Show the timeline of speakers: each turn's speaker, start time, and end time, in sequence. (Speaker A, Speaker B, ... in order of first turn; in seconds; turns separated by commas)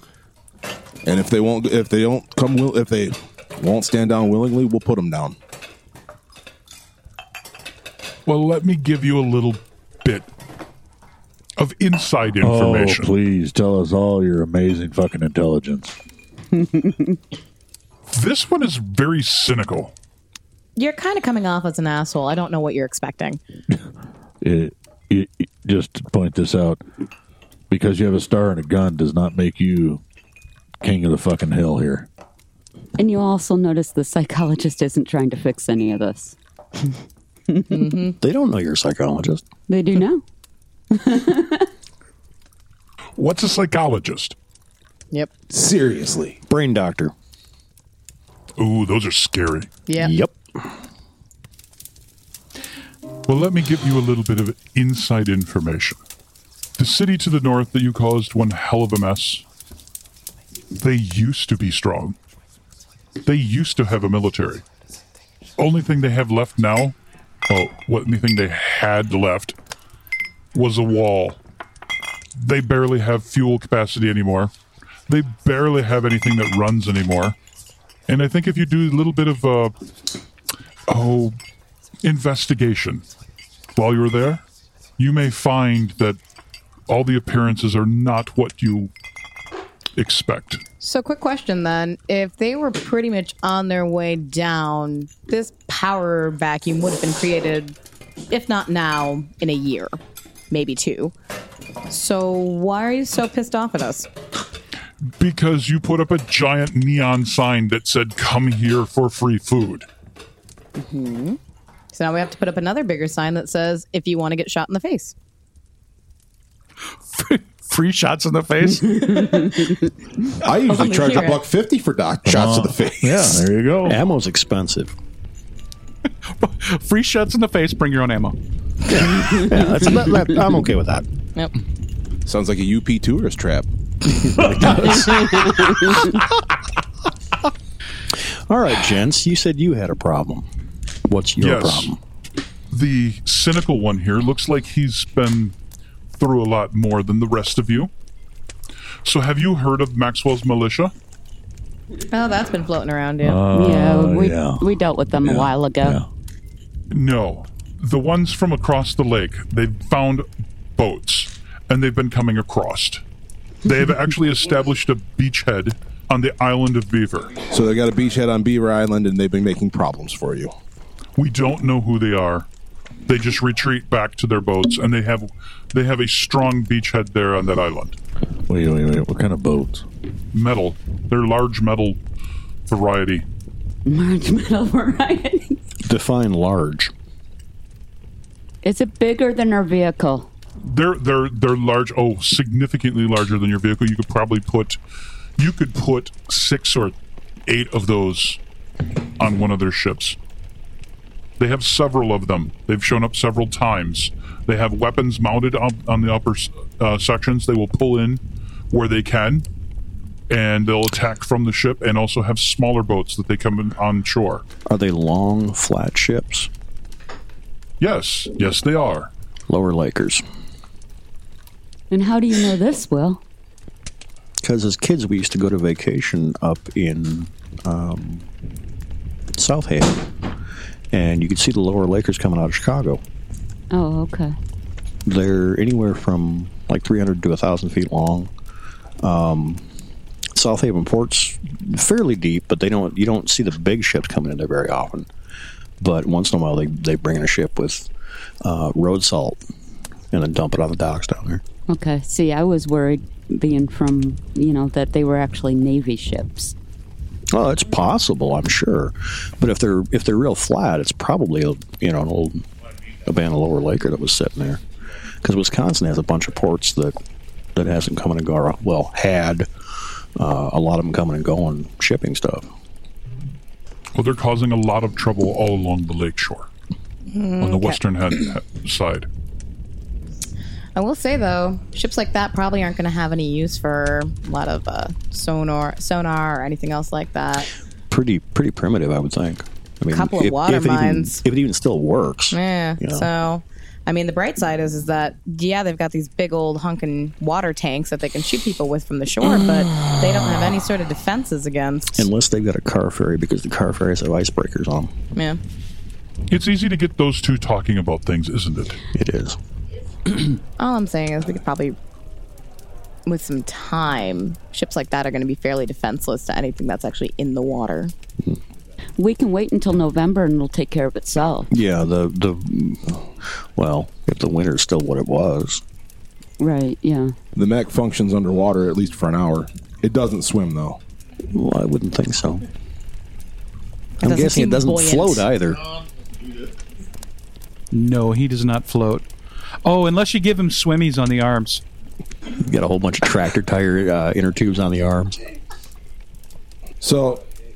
Speaker A: 1.0-5.4, Speaker B: 8.2-10.3, Speaker B: 11.6-13.1, Speaker C: 12.4-15.9, Speaker B: 18.1-19.9, Speaker D: 20.8-23.4, Speaker C: 24.4-26.8, Speaker C: 27.7-30.0, Speaker C: 30.8-32.1, Speaker E: 33.0-36.4, Speaker D: 37.7-38.1, Speaker F: 38.2-39.4, Speaker E: 39.7-40.2, Speaker E: 40.9-41.7, Speaker B: 43.1-44.4, Speaker A: 45.5-46.4, Speaker F: 46.5-47.1, Speaker B: 48.6-49.7, Speaker D: 49.9-50.1, Speaker F: 50.0-50.4, Speaker B: 53.3-56.0, Speaker B: 56.8-59.4, Speaker B: 60.8-62.1, Speaker B: 63.2-64.6, Speaker B: 65.6-67.0, Speaker B: 67.5-69.6, Speaker B: 70.5-71.4, Speaker B: 72.4-74.5, Speaker B: 75.1-77.3, Speaker B: 78.1-79.7, Speaker B: 80.9-81.3, Speaker B: 82.0-83.0, Speaker B: 83.8-84.4, Speaker B: 85.0-86.2, Speaker B: 86.9-88.9, Speaker B: 90.0-90.6, Speaker D: 90.8-97.8, Speaker D: 98.3-100.0, Speaker D: 100.5-101.1, Speaker D: 101.9-104.1, Speaker B: 105.2-109.9, Speaker D: 110.8-111.4, Speaker D: 111.9-115.1, Speaker G: 117.1-119.4, Speaker A: 120.4-123.4, Speaker D: 120.7-121.4, Speaker C: 122.2-124.0, Speaker F: 123.8-124.9, Speaker G: 126.2-128.3, Speaker F: 128.8-131.1, Speaker A: 132.2-133.7, Speaker F: 134.2-136.3, Speaker F: 138.5-140.4, Speaker F: 141.1-142.0, Speaker B: 141.4-141.9, Speaker B: 142.7-145.6, Speaker B: 146.2-147.9, Speaker B: 149.0-150.9, Speaker D: 152.1-153.4, Speaker C: 153.2-154.6, Speaker E: 153.5-156.0, Speaker C: 155.2-156.1, Speaker B: 156.9-163.0, Speaker B: 163.6-167.4, Speaker A: 167.5-170.5, Speaker B: 171.2-172.5, Speaker B: 173.1-178.0, Speaker C: 178.5-179.8, Speaker B: 180.3-182.0, Speaker B: 182.7-183.2, Speaker E: 183.8-185.6, Speaker F: 185.8-186.9, Speaker E: 188.6-190.3, Speaker B: 190.6-194.8, Speaker B: 195.4-196.9, Speaker B: 197.5-198.4, Speaker B: 199.2-200.2, Speaker B: 201.4-209.4, Speaker B: 210.3-214.4, Speaker F: 214.7-216.5, Speaker B: 217.8-219.1, Speaker F: 219.5-220.2, Speaker E: 221.9-223.2, Speaker F: 224.4-228.3, Speaker F: 229.3-230.1, Speaker F: 230.9-233.0, Speaker E: 233.7-234.3, Speaker F: 235.1-238.3, Speaker F: 239.0-239.7, Speaker F: 240.3-245.1, Speaker F: 245.8-247.9, Speaker F: 248.4-249.4, Speaker F: 250.1-251.4, Speaker E: 251.7-256.5, Speaker F: 257.3-262.4, Speaker F: 263.0-264.6, Speaker F: 265.2-267.0, Speaker F: 267.5-272.5, Speaker B: 273.9-276.5, Speaker D: 277.1-277.8, Speaker B: 277.4-279.1, Speaker D: 280.7-287.5, Speaker F: 287.9-293.1, Speaker D: 289.9-291.2, Speaker D: 292.3-302.1, Speaker F: 301.9-304.9, Speaker D: 305.1-305.4, Speaker B: 306.3-308.8, Speaker F: 308.9-309.4, Speaker D: 310.6-311.8, Speaker D: 313.1-317.9, Speaker E: 319.0-321.5, Speaker F: 321.5-325.6, Speaker E: 326.4-327.1, Speaker A: 327.4-330.8, Speaker F: 331.3-332.4, Speaker D: 334.0-335.3, Speaker F: 334.0-335.7, Speaker G: 337.7-339.0, Speaker G: 339.6-341.6, Speaker F: 342.3-345.2, Speaker A: 346.8-347.2